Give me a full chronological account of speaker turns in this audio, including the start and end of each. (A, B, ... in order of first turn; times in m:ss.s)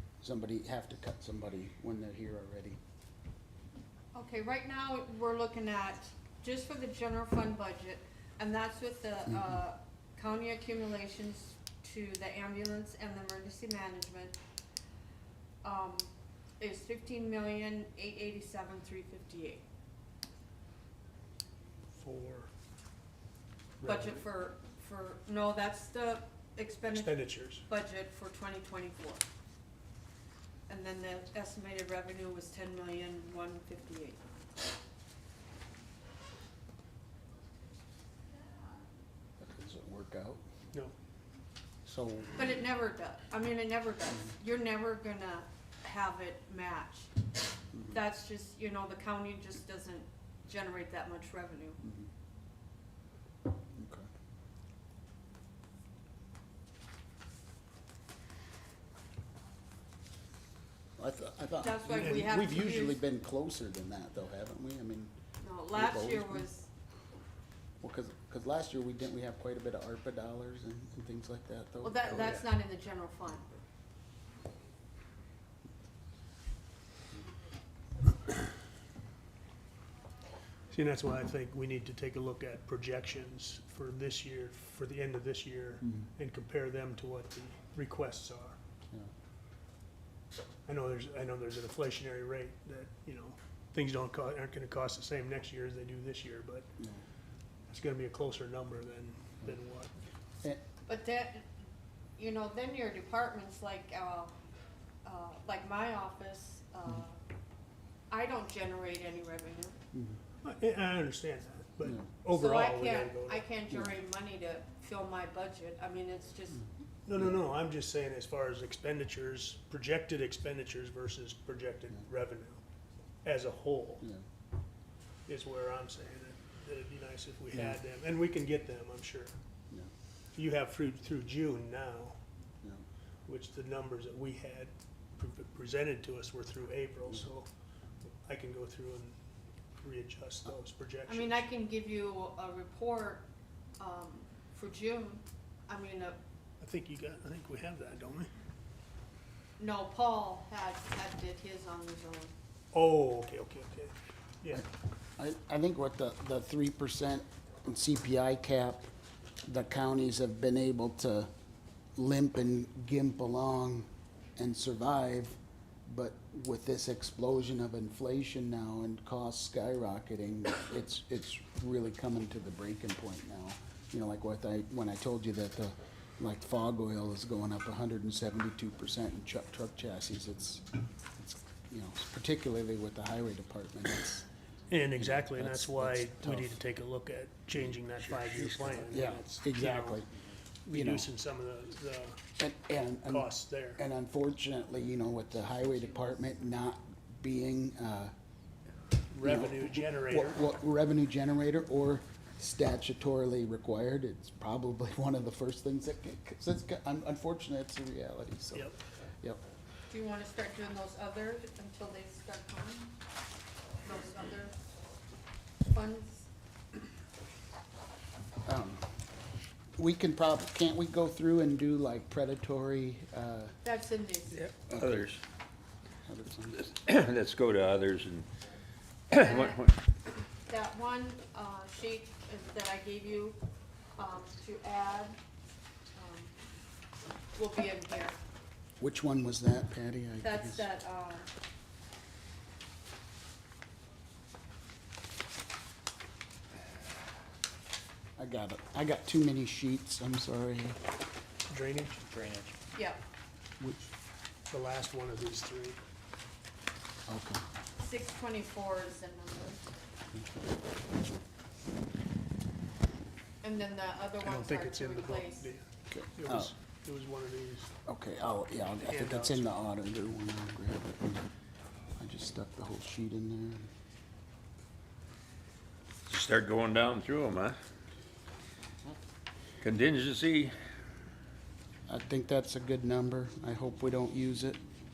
0:00.2-0:02.8 A
0:04.1-0:14.4 B
0:15.6-0:19.6 B
0:21.9-0:22.5 C
0:23.8-0:24.2 C
0:23.8-0:29.2 B
0:26.9-0:27.6 C
0:30.7-0:34.2 B
0:39.4-0:40.4 A
0:41.8-0:42.4 A
0:42.4-0:47.1 B
0:47.7-0:48.0 A
0:47.9-0:51.8 B
0:51.8-0:52.1 A
0:53.8-0:54.1 A
1:01.0-1:05.1 A
1:01.6-1:03.0 B
1:05.4-1:06.7 B
1:05.7-1:06.4 A
1:07.8-1:12.4 A
1:11.8-1:13.5 B
1:20.7-1:28.6 C
1:30.6-1:36.7 C
1:37.7-1:39.9 C
1:40.9-1:41.4 B
1:42.2-1:44.3 B
1:45.0-1:47.2 B
1:48.1-1:49.7 B
1:49.9-1:50.2 A
1:50.4-1:53.4 C
1:52.3-1:56.6 B
1:53.7-1:54.0 A
1:57.0-2:02.6 C
2:03.2-2:04.0 C
2:05.3-2:09.3 C
2:10.3-2:12.2 C
2:13.2-2:17.5 C
2:18.2-2:19.2 C
2:19.8-2:21.5 C
2:21.1-2:23.3 B
2:23.8-2:26.2 B
2:26.6-2:28.3 C
2:29.6-2:32.3 B
2:32.7-2:34.6 C
2:35.2-2:38.9 A
2:39.4-2:41.3 A
2:42.0-3:00.6 A
3:01.2-3:04.2 A
3:04.7-3:10.0 C
3:05.0-3:06.6 A
3:08.9-3:10.1 A
3:10.6-3:12.2 C
3:10.7-3:11.1 A
3:12.4-3:18.1 A
3:13.1-3:13.8 C
3:19.1-3:20.4 C
3:19.2-3:28.7 A
3:29.9-3:32.9 B
3:33.8-3:34.6 B
3:35.7-3:36.3 B
3:38.4-3:39.0 A
3:39.8-3:43.6 A
3:43.6-3:44.5 B
3:44.4-3:45.2 D
3:44.7-3:45.1 A
3:46.0-3:46.6 A
3:46.6-3:48.3 D
3:49.1-3:49.7 D
3:49.2-3:49.7 B
3:50.5-3:53.4 B
3:54.0-3:55.2 B
3:55.9-3:56.3 B
3:57.4-3:58.2 B
3:58.8-4:00.7 A
4:00.2-4:01.3 B
4:08.2-4:10.8 A
4:11.5-4:12.0 C
4:12.1-4:12.5 D
4:12.7-4:13.0 B
4:13.6-4:13.9 A
4:14.5-4:15.8 C
4:17.1-4:17.4 A
4:17.8-4:19.6 B
4:23.4-4:25.5 B
4:24.2-4:25.6 C
4:25.9-4:26.5 A
4:26.2-4:27.7 C
4:27.8-4:31.2 A
4:28.8-4:29.5 C
4:32.0-4:33.7 A
4:36.0-4:37.6 D
4:39.6-4:40.5 D
4:41.9-4:44.6 A